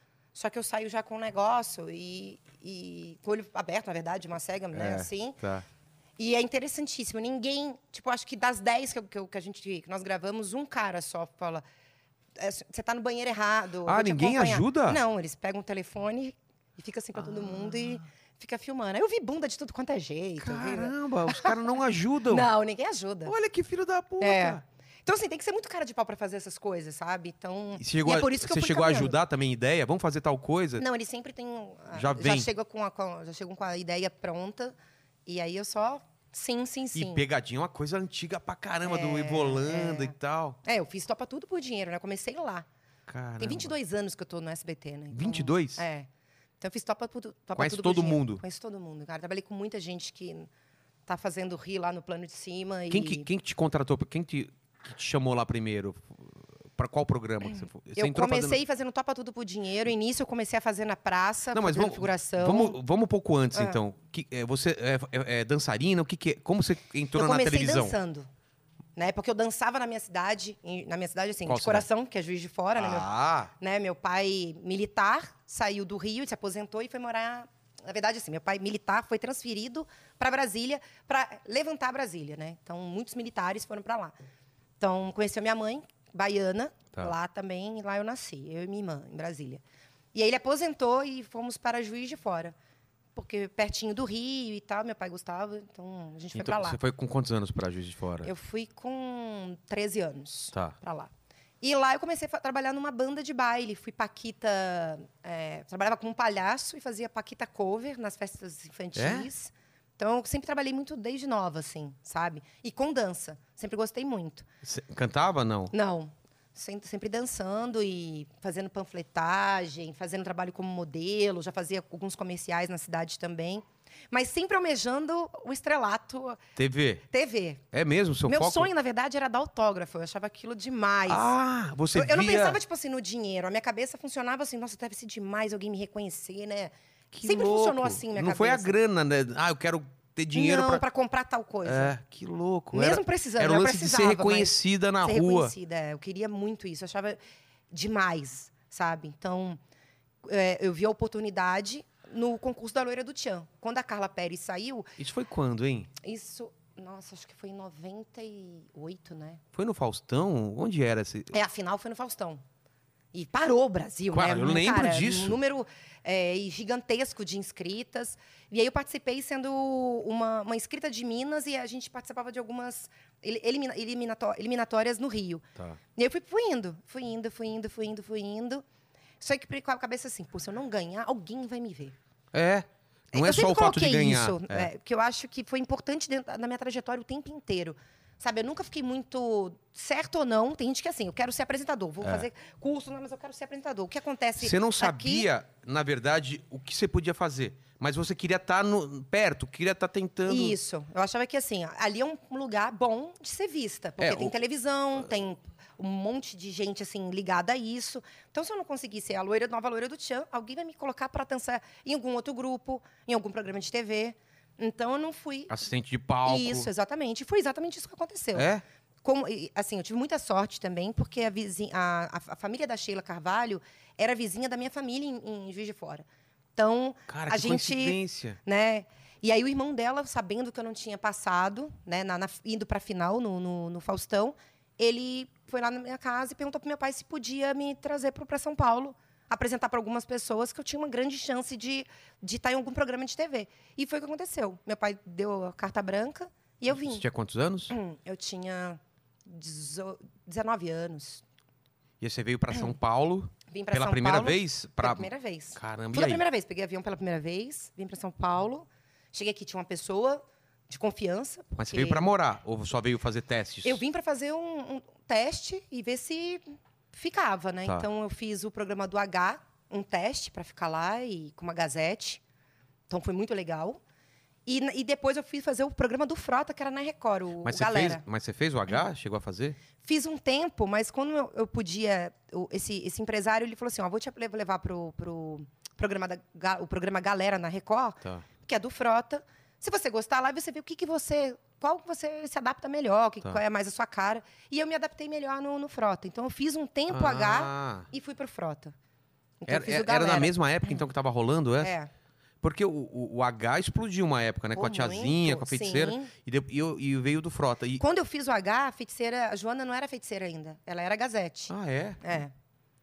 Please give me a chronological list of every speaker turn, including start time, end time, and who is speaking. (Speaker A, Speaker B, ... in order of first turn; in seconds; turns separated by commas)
Speaker A: 0.3-5.4, Speaker B: 4.7-5.7, Speaker A: 6.2-11.6, Speaker A: 12.4-21.5, Speaker B: 13.9-15.0, Speaker B: 17.2-18.0, Speaker B: 20.4-22.5, Speaker A: 22.3-23.3, Speaker B: 23.3-24.6, Speaker A: 24.2-29.2, Speaker B: 27.8-30.8, Speaker A: 30.8-34.8, Speaker B: 31.9-32.5, Speaker A: 35.3-37.2, Speaker B: 37.0-40.6, Speaker A: 38.9-42.7, Speaker B: 43.1-43.7, Speaker A: 43.4-46.1, Speaker B: 45.1-45.8, Speaker A: 46.6-50.5, Speaker B: 47.6-48.4, Speaker A: 51.1-53.3, Speaker B: 52.9-58.6, Speaker A: 57.5-62.8, Speaker B: 61.5-68.0, Speaker A: 67.2-68.3, Speaker A: 69.0-73.1, Speaker B: 71.5-71.9, Speaker B: 72.8-73.5, Speaker A: 73.6-84.2, Speaker A: 84.8-89.6, Speaker A: 90.1-92.5, Speaker A: 93.2-96.8, Speaker B: 96.3-98.3, Speaker A: 98.2-114.5, Speaker B: 109.0-109.3, Speaker B: 114.6-115.7, Speaker A: 115.7-126.4, Speaker B: 126.6-127.0, Speaker A: 127.1-127.6, Speaker B: 127.7-128.7, Speaker A: 128.3-131.3, Speaker B: 131.1-132.6, Speaker A: 131.9-138.7, Speaker B: 137.1-140.8, Speaker A: 140.3-141.9, Speaker B: 141.6-145.5, Speaker A: 142.7-147.2, Speaker A: 147.7-149.6, Speaker A: 150.2-154.9, Speaker B: 155.0-155.9, Speaker A: 156.0-159.4, Speaker B: 159.6-161.3, Speaker A: 161.3-162.4, Speaker A: 163.1-175.4, Speaker B: 164.1-165.4, Speaker A: 176.0-178.6, Speaker A: 179.2-181.9, Speaker B: 182.3-184.7, Speaker A: 183.1-195.3, Speaker B: 194.4-200.6, Speaker A: 200.3-215.5, Speaker B: 204.0-204.3, Speaker B: 215.5-216.7, Speaker A: 216.2-218.5, Speaker B: 218.3-218.6, Speaker A: 219.0-247.0, Speaker B: 227.1-228.4, Speaker B: 246.7-247.7, Speaker A: 247.7-251.2, Speaker B: 252.0-256.2, Speaker A: 253.5-262.1, Speaker B: 261.6-263.8, Speaker A: 263.6-272.2, Speaker A: 272.9-273.8, Speaker A: 274.5-278.0, Speaker B: 277.4-279.6, Speaker A: 279.8-298.7, Speaker B: 296.9-297.9, Speaker A: 299.4-300.8, Speaker B: 299.5-301.7, Speaker A: 301.6-301.9, Speaker B: 302.4-307.8, Speaker A: 304.6-306.1, Speaker A: 307.8-312.3, Speaker B: 311.5-312.0